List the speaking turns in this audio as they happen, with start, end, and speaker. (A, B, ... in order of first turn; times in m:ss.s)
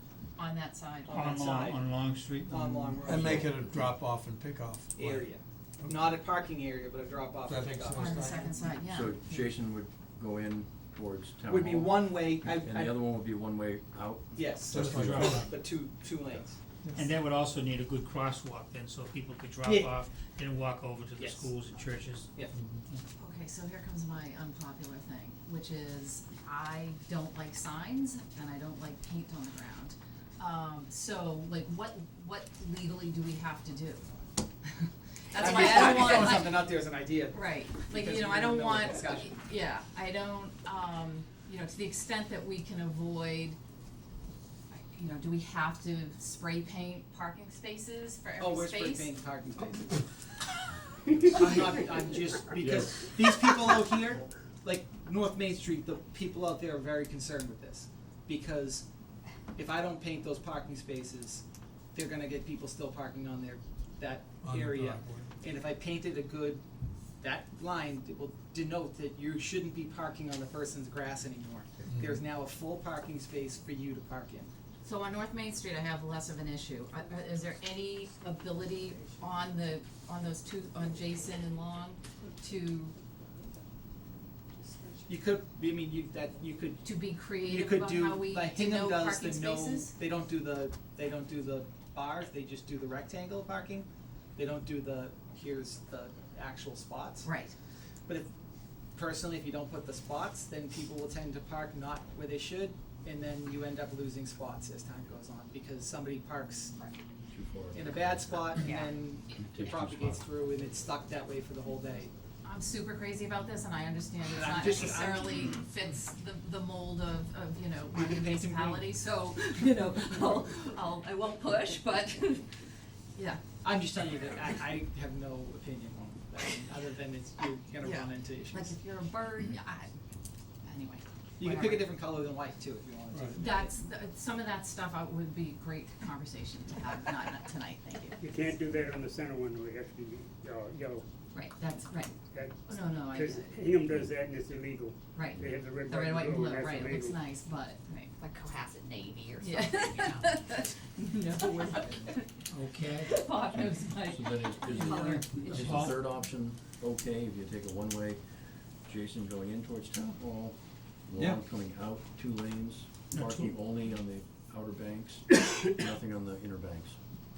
0:00.4-0:01.6 A
0:01.0-0:01.8 B
0:01.1-0:03.4 C
0:02.5-0:03.6 B
0:03.0-0:05.3 D
0:03.2-0:03.7 E
0:04.9-0:08.3 B
0:07.4-0:08.6 D
0:08.0-0:09.2 A
0:08.8-0:15.4 E
0:11.5-0:13.0 B
0:14.3-0:16.6 B
0:14.7-0:15.5 D
0:14.9-0:15.4 C
0:17.0-0:22.3 C
0:19.6-0:19.9 B
0:21.2-0:21.5 B
0:23.2-0:34.2 A
0:35.3-0:36.7 A
0:35.3-0:39.4 B
0:37.3-0:43.6 A
0:44.7-0:49.2 A
0:48.4-0:50.0 B
0:51.2-0:58.8 B
0:52.6-0:53.0 E
0:59.5-1:06.6 B
1:04.4-1:05.3 D
1:07.2-1:14.5 B
1:11.8-1:12.2 D
1:14.8-1:23.0 A
1:24.6-1:24.9 F
1:25.0-1:26.8 B
1:26.8-1:29.9 A
1:27.4-1:37.3 B
1:37.2-1:37.6 A
1:38.9-1:46.8 B
1:47.3-1:48.7 E
1:47.7-1:52.1 B
1:48.6-1:49.0 F
1:49.4-1:50.2 E
1:52.4-2:02.5 A
1:54.3-1:55.5 B
1:57.9-1:58.9 B
2:03.1-2:03.4 A
2:03.6-2:08.8 B
2:07.8-2:10.0 A
2:10.6-2:11.9 A
2:11.4-2:13.8 B
2:13.1-2:13.4 D
2:13.4-2:18.2 A
2:18.2-2:21.0 G
2:21.3-2:23.8 A
2:22.3-2:27.2 G
2:25.1-2:28.2 A
2:28.2-2:30.3 F
2:29.4-2:32.4 A
2:32.5-2:33.1 C
2:33.0-2:35.3 A
2:33.6-2:38.2 E
2:35.0-2:35.8 F
2:35.4-2:36.2 C
2:38.9-2:40.6 E
2:41.1-2:47.0 E
2:41.2-2:41.4 D
2:43.1-2:43.4 C